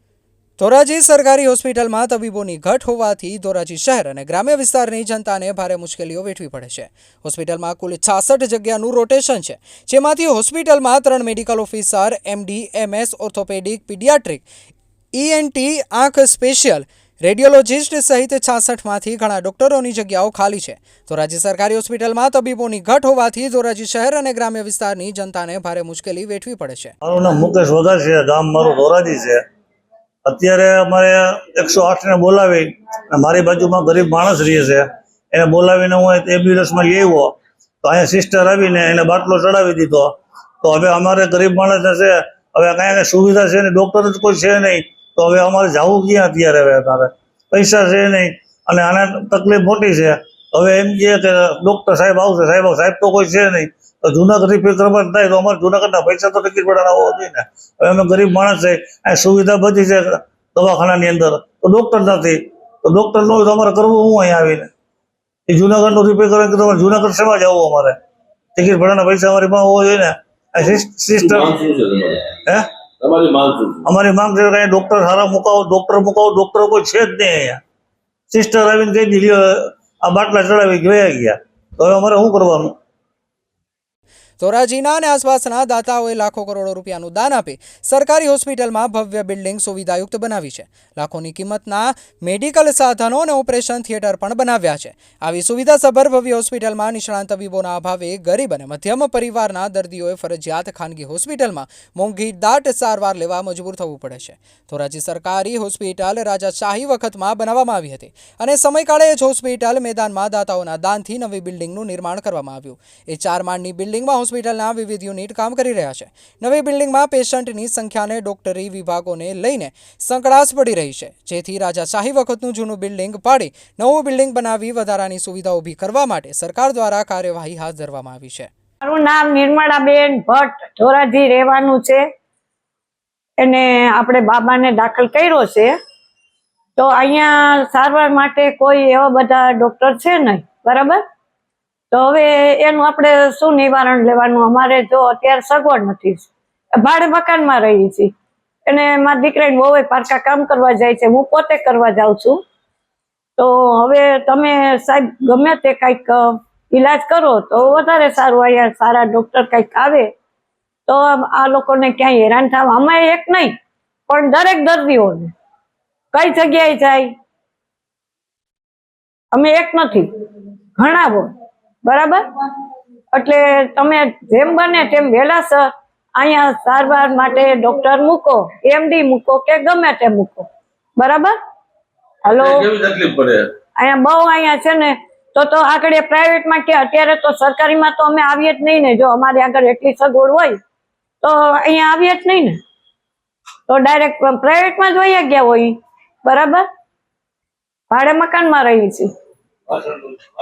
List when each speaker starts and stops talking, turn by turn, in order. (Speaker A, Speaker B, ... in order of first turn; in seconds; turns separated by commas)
Speaker A: 0.6-14.5, Speaker A: 15.1-26.9, Speaker B: 27.0-29.4, Speaker B: 30.2-40.1, Speaker B: 40.6-64.7, Speaker B: 65.5-68.0, Speaker B: 68.6-71.5, Speaker C: 71.2-72.3, Speaker C: 73.0-73.8, Speaker B: 73.8-77.6, Speaker B: 78.3-82.7, Speaker A: 84.4-128.5, Speaker D: 128.8-132.0, Speaker D: 133.4-135.7, Speaker D: 136.8-141.0, Speaker D: 141.9-148.1, Speaker D: 148.7-152.4, Speaker D: 153.4-160.1, Speaker D: 160.9-163.5, Speaker D: 164.1-165.3, Speaker D: 166.1-167.1, Speaker D: 169.3-170.1, Speaker D: 170.8-171.3, Speaker D: 171.8-172.2, Speaker D: 173.1-180.5, Speaker D: 181.0-181.3, Speaker D: 182.2-182.7, Speaker C: 182.4-183.5, Speaker D: 183.8-190.6, Speaker D: 191.2-192.6, Speaker D: 193.7-196.7, Speaker D: 197.9-199.1, Speaker C: 199.7-200.0